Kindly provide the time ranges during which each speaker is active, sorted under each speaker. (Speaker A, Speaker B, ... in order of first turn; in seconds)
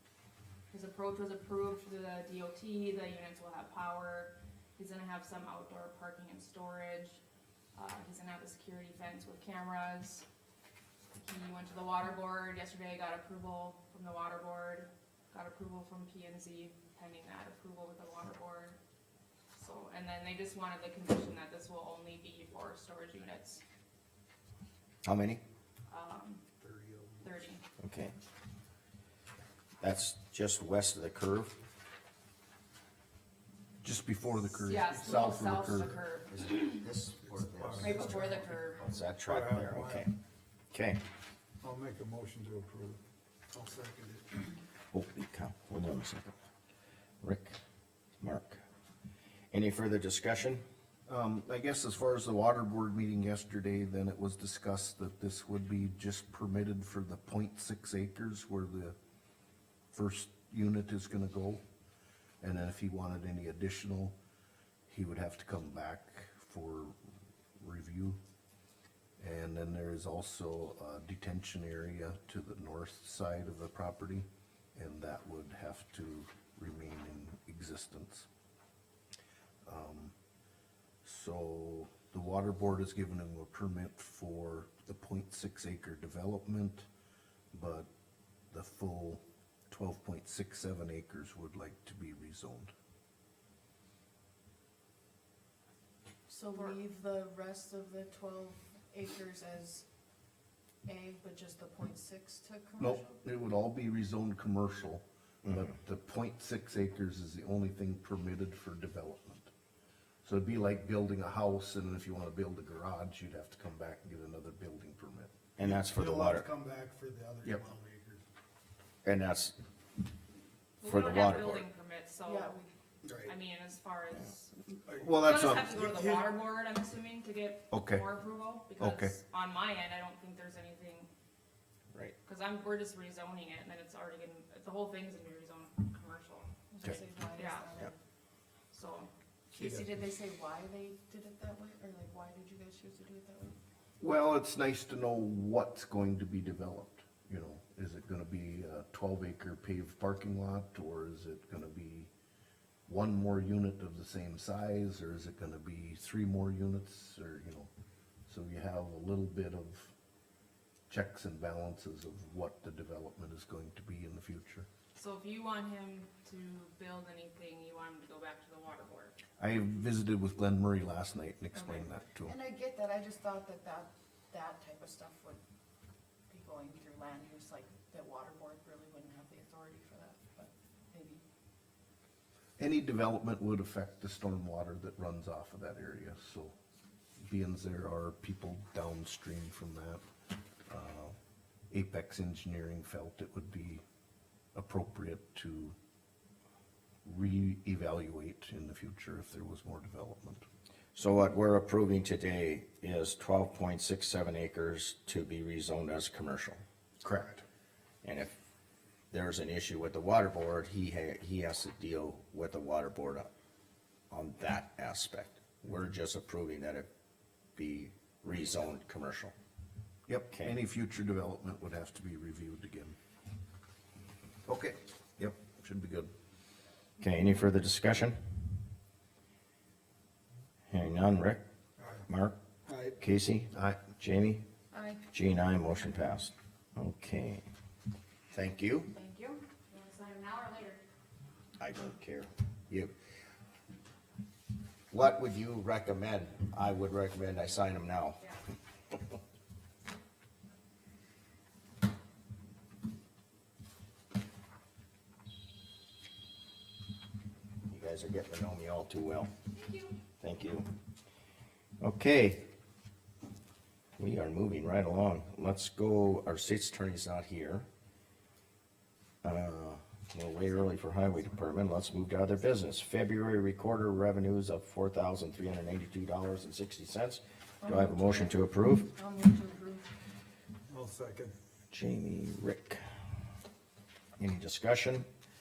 Speaker A: 0.7-7.2, 7.7-10.2, 11.2-18.8, 19.6-23.6, 25.9-26.4, 27.2-27.6, 34.5-36.8, 37.8-38.8, 120.8-122.5, 123.2-124.5, 125.1-131.1, 132.2-136.5, 137.3-137.7, 138.7-139.1, 164.9-169.2, 239.0-240.8, 259.5-259.9
Speaker B: 25.0-25.4, 27.8-28.1, 29.8-31.6, 36.3-40.1, 40.7-41.0, 44.9-46.3, 47.2-47.6, 48.2-48.6, 49.5-50.6, 115.6-116.5, 119.0-119.5, 120.8-121.7, 200.9-207.1, 208.0-208.3, 209.1-213.3, 214.1-216.9, 217.6-219.3, 220.3-220.6, 227.0-228.2, 230.7-231.4, 232.1-232.3, 233.0-234.4, 235.1-237.4, 238.3-238.9, 241.6-242.9, 244.9-248.2, 257.7-259.3, 260.2-260.7, 261.8-262.4, 264.0-267.7, 269.2-278.9, 281.7-282.8, 284.2-285.1
Speaker C: 26.6-27.3, 37.2-38.4, 39.2-40.1, 41.6-44.4, 115.6-118.2, 123.0-123.3, 124.9-126.2, 139.6-139.9, 207.0-207.4, 231.8-232.1, 232.7-233.0, 280.7-281.4
Speaker D: 33.8-36.0, 51.1-59.0, 59.9-61.6, 62.4-64.2, 64.9-67.0, 67.6-68.2, 69.2-78.3, 79.7-80.1, 81.0-86.9, 87.5-87.9, 88.5-92.7, 102.8-109.5, 110.2-115.3, 125.0-125.9, 127.7-128.1, 128.8-129.1, 144.0-152.1, 152.8-157.7, 158.3-159.9, 160.9-164.7, 169.4-172.3, 182.6-186.5, 187.2-190.0, 190.7-191.2, 191.7-193.8, 194.5-195.8, 197.0-200.4, 220.1-223.0, 224.4-226.1, 233.5-233.8
Speaker E: 96.3-99.8, 100.8-103.2, 122.2-122.7, 136.7-138.0, 139.5-143.6, 171.6-175.4, 176.3-181.2, 234.7-235.0, 277.6-279.9